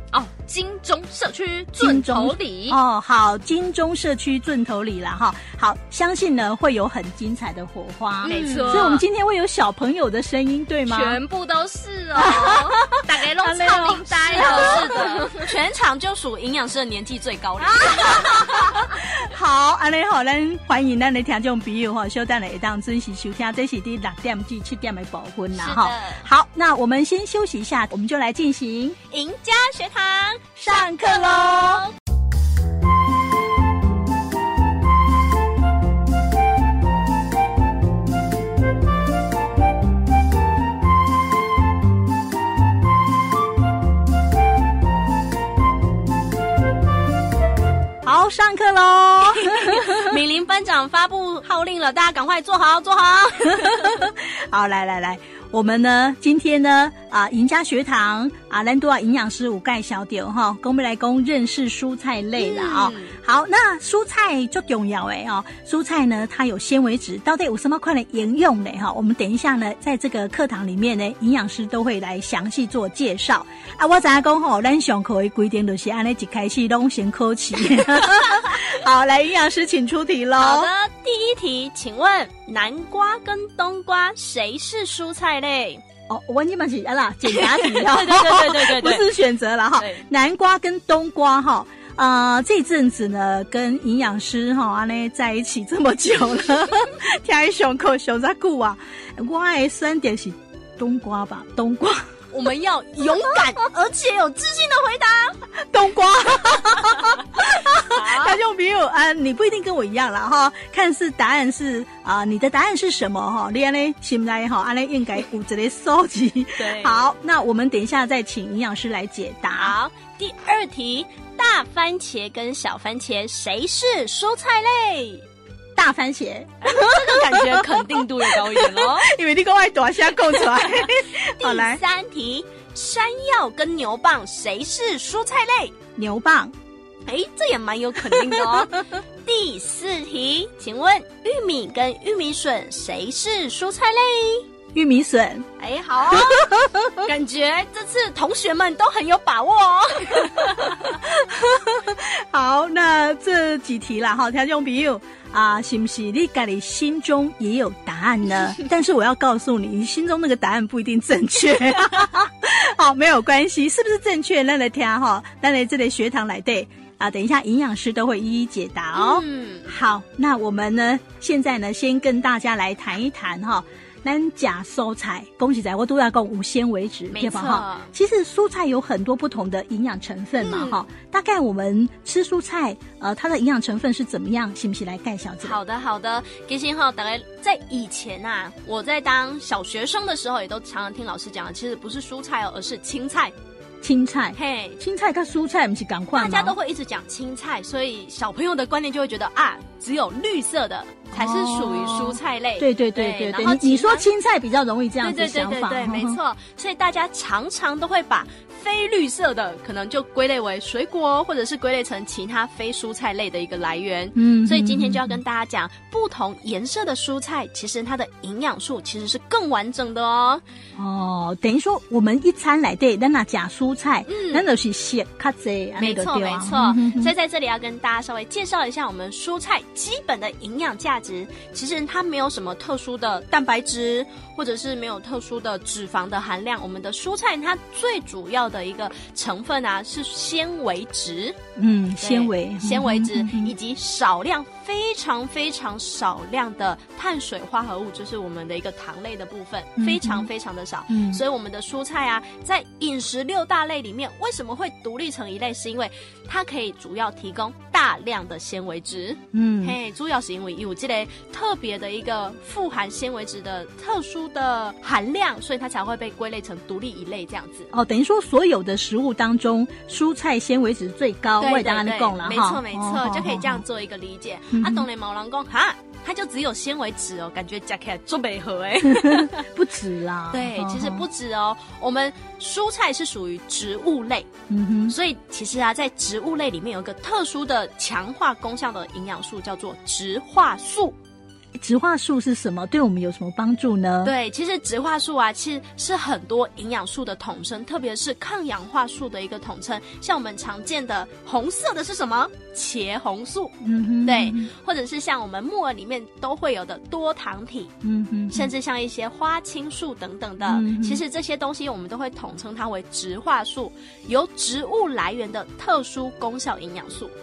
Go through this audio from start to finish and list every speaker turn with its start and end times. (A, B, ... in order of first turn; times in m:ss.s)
0:00.1-0:02.8 A
0:01.8-0:11.2 B
0:08.2-0:09.0 A
0:08.2-0:09.0 C
0:10.9-0:15.5 A
0:12.1-0:15.0 B
0:14.3-0:18.8 C
0:17.7-0:18.7 A
0:18.0-0:29.0 B
0:25.5-0:26.2 C
0:29.1-0:31.9 C
0:30.6-0:31.8 B
0:48.0-0:50.1 B
0:49.4-0:54.0 C
0:53.5-1:20.7 B
1:02.4-1:03.2 C
1:20.4-1:25.8 C
1:26.1-1:42.1 B
1:27.4-1:29.1 C
1:29.8-1:30.0 C
1:42.3-1:45.5 C
1:45.7-1:59.8 B
1:47.9-1:48.4 C
1:56.6-1:57.0 C
1:59.5-2:05.2 C
2:05.8-2:11.8 B
2:06.6-2:09.1 C
2:10.4-2:15.7 C
2:16.0-2:16.5 B
2:17.0-2:24.4 C
2:18.0-2:18.7 B
2:24.7-2:25.5 B
2:25.6-2:26.5 C
2:26.1-2:27.1 B
2:27.0-2:31.0 C
2:30.4-3:05.6 B
2:48.9-2:49.7 C
2:57.1-2:57.9 C
3:00.4-3:00.8 C
3:05.4-3:13.3 C
3:13.8-3:16.5 B
3:14.3-3:14.8 C
3:16.1-3:24.1 C
3:21.1-3:26.2 B
3:25.0-3:40.4 C
3:34.2-3:35.2 B
3:40.8-3:47.1 B
3:44.1-3:44.4 C
3:45.8-4:01.4 C
4:01.6-4:03.5 B
4:02.0-4:27.7 C
4:09.8-4:10.3 B
4:10.9-4:11.2 B
4:19.3-4:19.8 B
4:27.7-4:33.6 B
4:31.4-4:39.5 C
4:34.5-4:34.9 B
4:38.8-4:41.0 B
4:40.3-4:44.3 C
4:44.5-4:44.9 B
4:44.9-4:51.0 C
4:51.6-4:54.1 B
4:54.0-5:07.7 C
5:03.6-5:04.5 B
5:07.8-5:08.5 B
5:08.3-5:17.1 C
5:10.4-5:11.0 B